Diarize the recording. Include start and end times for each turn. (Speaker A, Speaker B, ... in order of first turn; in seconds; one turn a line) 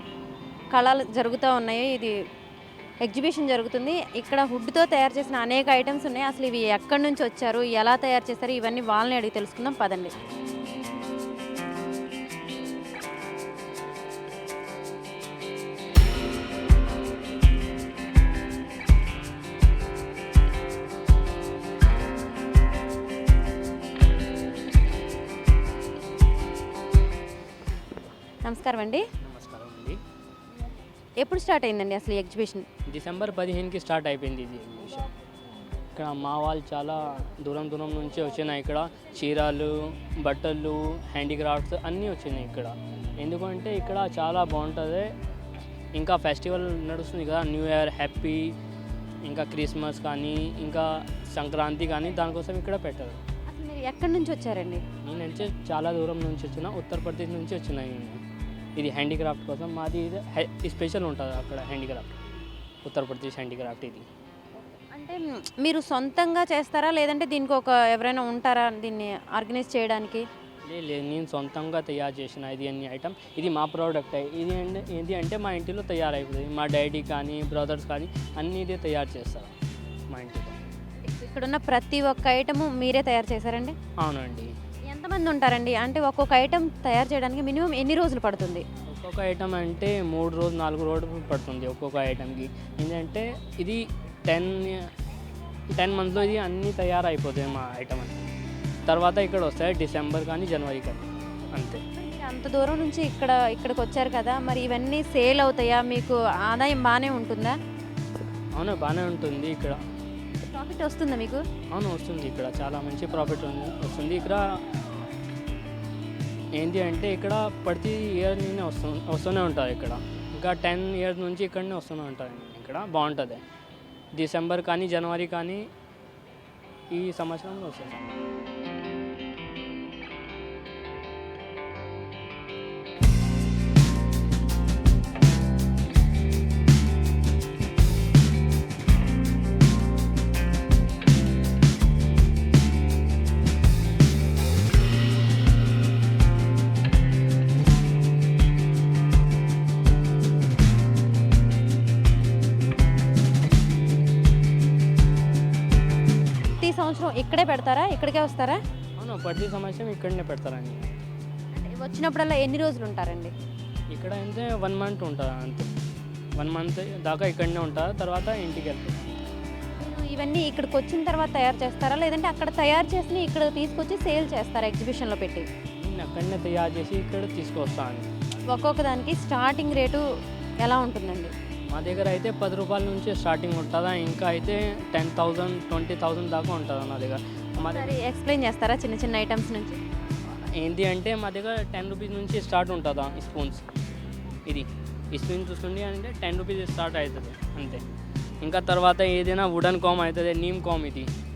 Speaker A: 0.7-2.2
Speaker A: 3.0-10.1
Speaker A: 28.4-29.1
Speaker B: 29.2-30.0
Speaker A: 31.2-32.7
Speaker B: 32.9-35.1
Speaker B: 36.0-45.1
Speaker B: 46.0-48.6
Speaker B: 49.2-53.2
Speaker A: 53.5-54.8
Speaker B: 55.0-58.2
Speaker B: 58.8-62.2
Speaker B: 62.9-64.1
Speaker A: 64.6-70.2
Speaker B: 70.7-79.5
Speaker B: 80.1-80.6
Speaker A: 81.0-83.8
Speaker B: 84.0-84.5
Speaker A: 84.9-88.7
Speaker B: 88.9-94.9
Speaker B: 95.7-98.2
Speaker B: 98.9-101.8
Speaker A: 101.9-107.6
Speaker B: 108.6-109.8
Speaker A: 110.4-111.4
Speaker B: 111.7-114.6
Speaker B: 116.5-123.4
Speaker B: 124.2-125.7
Speaker B: 126.9-128.1
Speaker A: 156.6-158.6
Speaker B: 159.0-161.0
Speaker A: 161.5-163.3
Speaker B: 163.9-165.7
Speaker B: 166.4-169.1
Speaker A: 169.8-175.5
Speaker B: 175.8-178.2
Speaker A: 178.5-180.0
Speaker A: 180.6-181.3
Speaker B: 181.7-187.9
Speaker A: 187.6-189.8
Speaker B: 190.6-193.6
Speaker B: 194.5-197.8
Speaker B: 198.4-201.1